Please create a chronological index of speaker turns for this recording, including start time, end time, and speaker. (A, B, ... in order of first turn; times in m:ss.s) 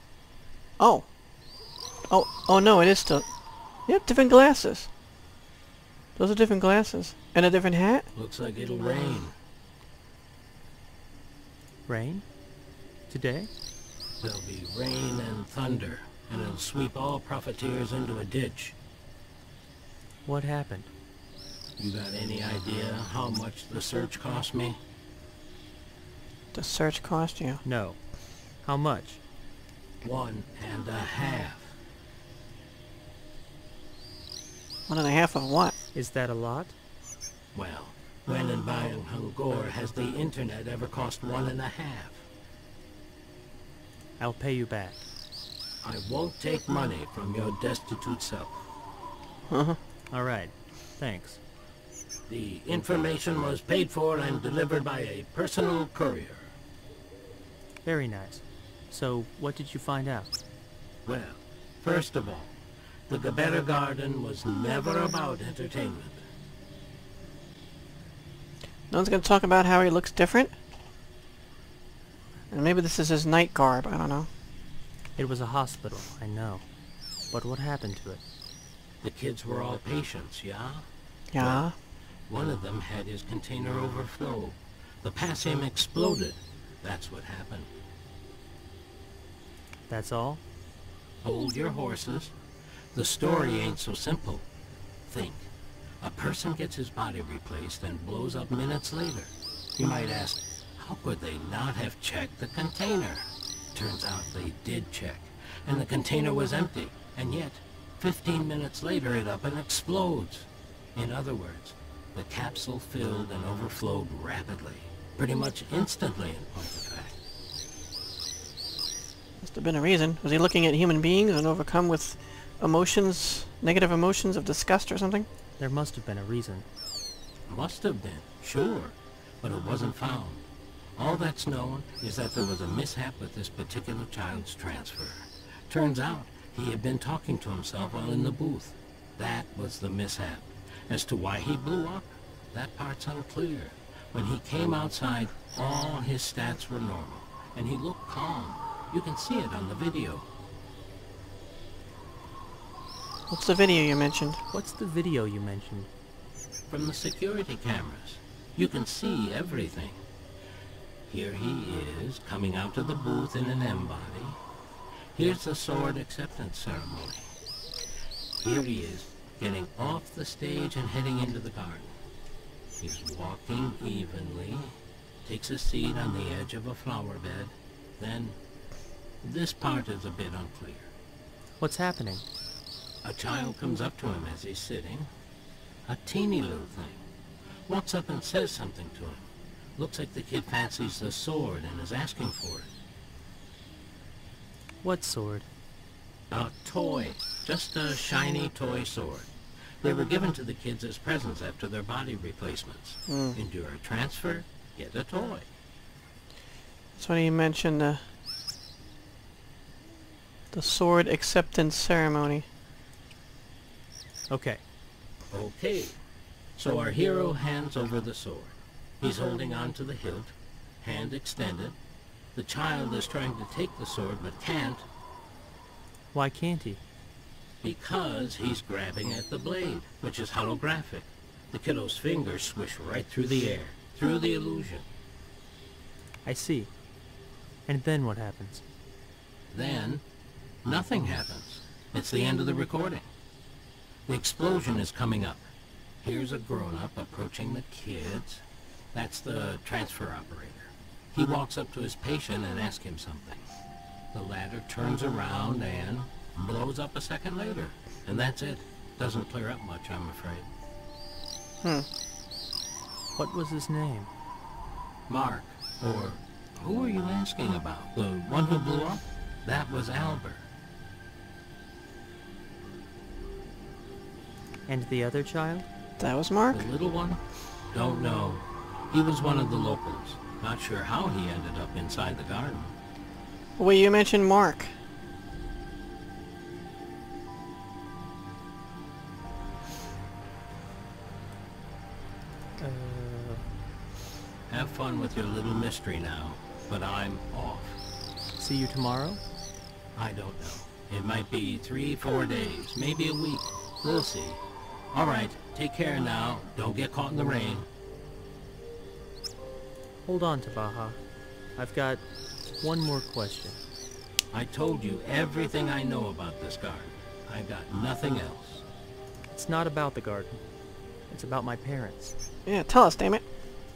0:00.8-0:01.1 A
0:02.1-0:03.3 A
0:03.8-0:04.9 A
0:06.2-0:08.1 A
0:08.2-0:09.3 B
0:11.9-0:12.2 C
0:13.1-0:13.5 C
0:14.2-0:18.7 B
0:20.2-0:20.9 C
0:21.8-0:24.8 B
0:26.5-0:27.6 A
0:27.6-0:28.0 C
0:28.6-0:29.2 C
0:30.0-0:31.7 B
0:34.9-0:35.8 A
0:35.9-0:36.7 C
0:37.5-0:42.2 B
0:44.2-0:45.0 C
0:45.8-0:48.6 B
0:49.5-0:49.8 A
0:50.1-0:51.4 C
0:52.3-0:56.5 B
0:57.8-1:00.3 C
1:01.0-1:02.5 B
1:03.1-1:06.2 B
1:08.9-1:10.5 A
1:12.5-1:14.3 A
1:15.2-1:16.6 C
1:17.3-1:18.2 C
1:19.0-1:20.8 B
1:21.3-1:21.7 A
1:21.4-1:21.6 B
1:22.3-1:27.7 B
1:29.9-1:30.4 C
1:31.2-1:32.3 B
1:32.9-1:34.4 B
1:35.1-1:35.5 B
1:36.0-1:57.1 B
1:59.4-2:05.3 A
2:05.6-2:06.6 C
2:07.5-2:10.4 B
2:11.0-2:30.2 B
2:33.3-2:34.4 A
2:34.5-2:35.9 C
2:36.7-2:40.0 B
2:41.1-2:44.4 B
2:45.1-2:47.3 B
2:48.4-2:51.9 B
2:52.8-2:58.4 B
2:59.2-3:00.9 B
3:01.6-3:02.2 C
3:03.0-3:05.1 B
3:05.9-3:07.0 B
3:07.7-3:09.2 B
3:09.8-3:12.7 B
3:14.8-3:15.5 C
3:16.3-3:19.3 B
3:19.8-3:25.5 B
3:23.1-3:23.4 A
3:27.0-3:28.0 A
3:30.5-3:32.4 A
3:34.3-3:34.6 C
3:35.3-3:36.0 B
3:36.6-3:41.7 B
3:42.3-3:44.8 B
3:46.1-3:46.8 C
3:47.6-3:54.8 B
3:56.2-3:56.7 C
3:57.6-3:58.6 C
3:59.5-4:00.0 B
4:00.6-4:03.0 B
4:04.1-4:05.4 B
4:06.0-4:08.4 B
4:08.9-4:13.4 B
4:14.1-4:20.5 B
4:21.6-4:21.9 A
4:23.2-4:24.1 C
4:25.1-4:30.4 B
4:34.7-4:35.6 C
4:36.0-4:36.7 A
4:36.5-4:37.2 B
4:37.7-4:42.7 B
4:43.6-4:44.7 A
4:52.6-4:53.4 C
4:54.5-4:57.8 B
4:58.4-4:59.2 C
5:00.0-5:04.4 B
5:04.9-5:07.7 B
5:10.0-5:11.0 C
5:11.6-5:12.0 C
5:12.6-5:13.6 C
5:14.3-5:18.6 B
5:19.3-5:20.4 C
5:21.1-5:22.1 C
5:22.4-5:23.2 A